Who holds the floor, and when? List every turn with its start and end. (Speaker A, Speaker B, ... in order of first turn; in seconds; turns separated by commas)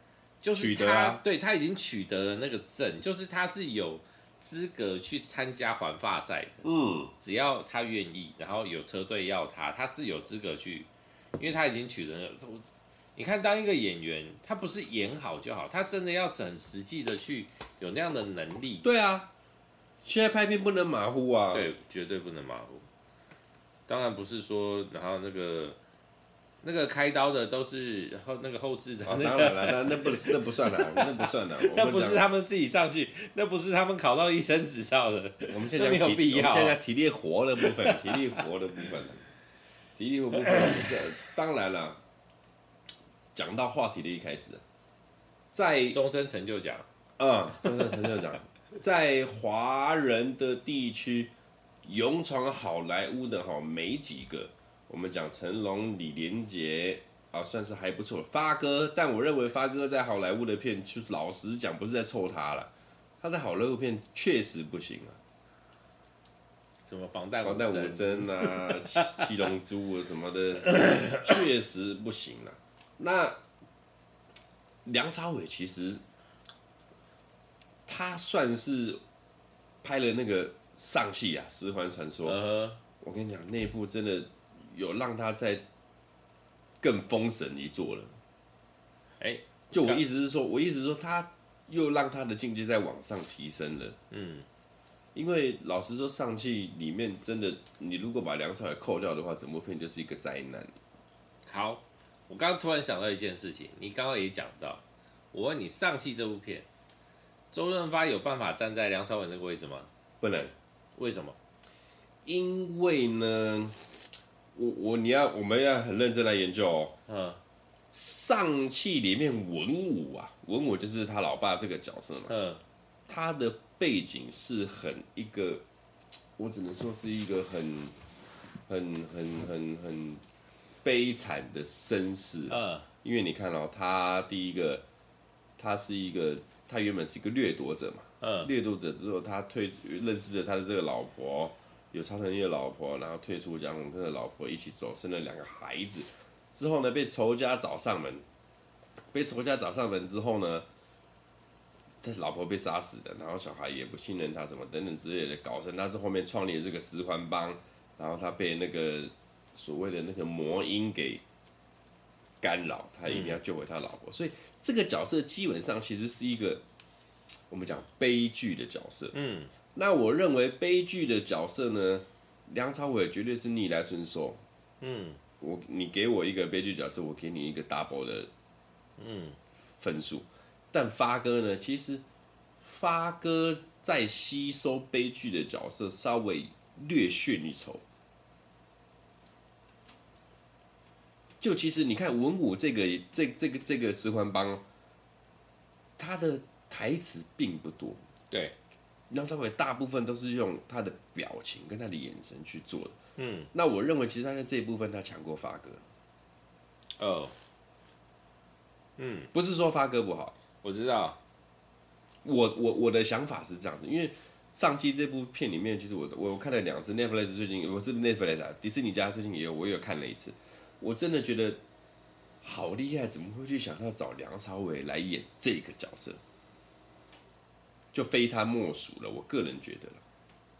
Speaker A: 0.4-6.6, Speaker B: 0.6-1.2, Speaker B: 6.6-7.1, Speaker A: 7.2-12.6, Speaker A: 13.2-18.8, Speaker B: 18.8-19.3, Speaker B: 20.0-21.7, Speaker A: 21.5-22.8, Speaker A: 23.9-25.8, Speaker A: 26.6-36.8, Speaker B: 29.1-32.2, Speaker B: 35.5-39.3, Speaker A: 37.6-38.2, Speaker B: 40.0-42.0, Speaker A: 40.5-40.9, Speaker B: 43.3-44.6, Speaker B: 45.5-46.0, Speaker A: 45.9-46.9, Speaker B: 47.2-51.3, Speaker B: 51.8-62.7, Speaker B: 63.2-65.2, Speaker A: 66.9-69.3, Speaker B: 67.4-73.4, Speaker A: 70.8-71.1, Speaker B: 74.8-76.0, Speaker B: 77.9-79.0, Speaker B: 79.8-82.4, Speaker A: 82.2-82.8, Speaker B: 83.0-85.6, Speaker B: 86.8-88.2, Speaker A: 89.2-90.0, Speaker B: 89.7-94.0, Speaker A: 94.1-94.5, Speaker B: 95.1-100.7, Speaker A: 101.5-106.7, Speaker A: 107.5-109.9, Speaker B: 110.2-110.5, Speaker A: 111.0-111.4, Speaker B: 112.2-113.8, Speaker B: 114.5-116.9, Speaker A: 117.1-117.4, Speaker B: 117.9-122.3, Speaker A: 122.3-122.6, Speaker B: 123.1-125.6, Speaker B: 126.4-127.9, Speaker B: 128.7-130.2, Speaker B: 130.8-134.8, Speaker A: 132.5-132.9, Speaker B: 135.6-148.2, Speaker A: 138.2-138.5, Speaker B: 149.1-150.7, Speaker B: 152.0-161.2, Speaker B: 162.4-166.6, Speaker A: 163.1-163.4, Speaker B: 167.5-169.1, Speaker A: 169.1-169.5, Speaker B: 169.7-174.4, Speaker A: 174.8-175.2, Speaker B: 175.4-178.3, Speaker A: 179.0-179.4, Speaker B: 179.8-182.0, Speaker B: 182.6-187.8, Speaker B: 191.4-194.6, Speaker B: 196.0-198.0, Speaker B: 199.1-202.9, Speaker A: 203.2-203.5, Speaker B: 203.5-205.8, Speaker A: 207.0-207.3, Speaker A: 209.0-209.3, Speaker B: 209.3-210.3, Speaker A: 210.6-211.2, Speaker B: 212.2-221.6, Speaker B: 222.4-226.2, Speaker B: 227.9-230.0